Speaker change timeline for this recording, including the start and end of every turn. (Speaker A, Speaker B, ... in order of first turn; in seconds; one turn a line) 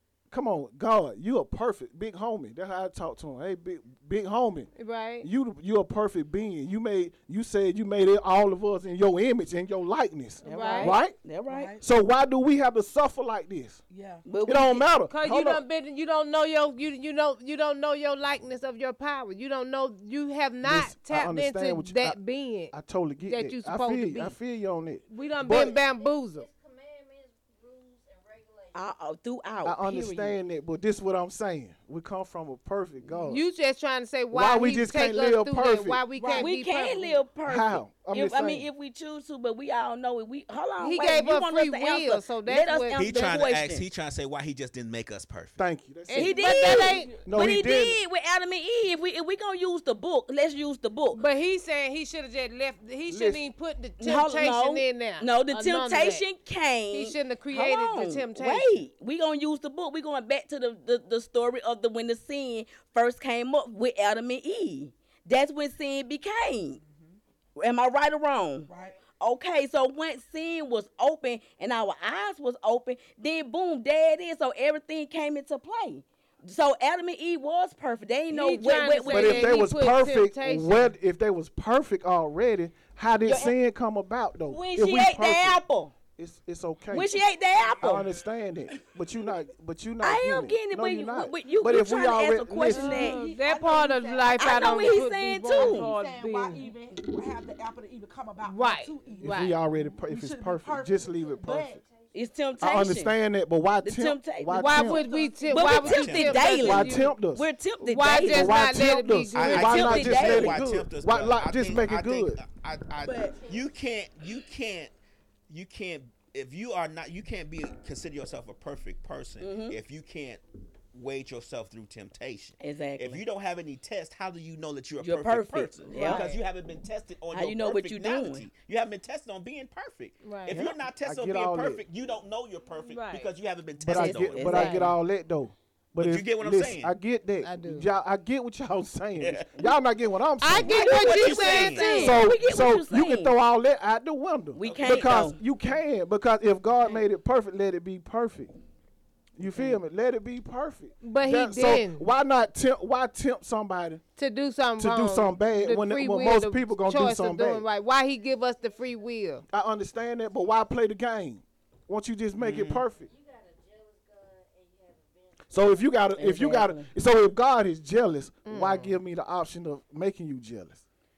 Speaker A: 0.3-11.2
Speaker B: 4.8-5.3
Speaker B: 10.4-11.0
Speaker C: 10.4-11.7
Speaker D: 11.5-11.8
Speaker A: 11.8-13.8
Speaker D: 13.9-14.2
Speaker C: 14.2-14.8
Speaker A: 14.4-15.6
Speaker B: 15.1-22.7
Speaker A: 20.6-22.2
Speaker A: 22.7-25.8
Speaker B: 23.2-24.4
Speaker B: 25.1-26.4
Speaker E: 25.1-28.9
Speaker C: 28.7-30.4
Speaker A: 29.6-33.4
Speaker B: 33.2-37.2
Speaker A: 34.3-36.0
Speaker D: 36.1-36.5
Speaker C: 36.3-43.9
Speaker A: 37.5-38.7
Speaker B: 40.8-43.3
Speaker F: 42.9-45.6
Speaker A: 45.6-48.0
Speaker B: 46.1-47.1
Speaker C: 46.1-51.2
Speaker B: 51.1-56.3
Speaker A: 53.1-53.5
Speaker C: 54.0-66.8
Speaker B: 56.9-58.7
Speaker C: 67.6-79.6
Speaker D: 68.7-69.0
Speaker B: 78.3-80.9
Speaker A: 79.0-85.6
Speaker C: 83.2-83.5
Speaker C: 84.5-85.9
Speaker A: 86.2-87.2
Speaker C: 86.9-88.1
Speaker A: 87.8-93.0
Speaker C: 90.0-93.2
Speaker B: 92.7-96.7
Speaker D: 92.7-101.8
Speaker C: 94.4-95.9
Speaker B: 98.4-99.5
Speaker A: 99.2-101.8
Speaker E: 100.7-102.8
Speaker C: 102.1-103.1
Speaker A: 102.6-105.0
Speaker C: 103.8-108.8
Speaker B: 104.5-107.1
Speaker D: 105.1-105.4
Speaker E: 105.1-105.5
Speaker F: 105.6-106.6
Speaker A: 106.5-107.5
Speaker B: 107.8-109.8
Speaker A: 108.1-112.4
Speaker F: 109.3-114.9
Speaker C: 109.4-110.7
Speaker C: 113.0-113.4
Speaker E: 113.1-113.8
Speaker F: 115.5-120.4
Speaker C: 119.4-119.8
Speaker F: 120.9-134.7
Speaker C: 122.6-123.2
Speaker C: 125.0-126.4
Speaker B: 125.9-126.4
Speaker C: 127.3-128.5
Speaker B: 130.2-130.6
Speaker A: 131.0-131.8
Speaker B: 132.8-133.3
Speaker A: 133.8-141.0
Speaker C: 133.9-134.9
Speaker B: 134.4-134.9
Speaker F: 136.0-136.9
Speaker B: 137.4-137.9
Speaker F: 139.2-139.6
Speaker B: 140.4-142.2
Speaker C: 140.6-143.3
Speaker F: 140.7-142.2
Speaker A: 141.8-148.5
Speaker C: 144.6-145.4
Speaker F: 144.6-145.2
Speaker A: 149.4-154.0
Speaker C: 149.5-149.8
Speaker B: 151.0-152.0
Speaker B: 154.2-159.4
Speaker A: 154.8-157.6
Speaker E: 157.9-159.1
Speaker A: 159.5-163.1
Speaker F: 162.3-162.8
Speaker E: 162.9-165.9
Speaker A: 165.5-170.8
Speaker C: 166.2-166.9
Speaker B: 168.4-169.0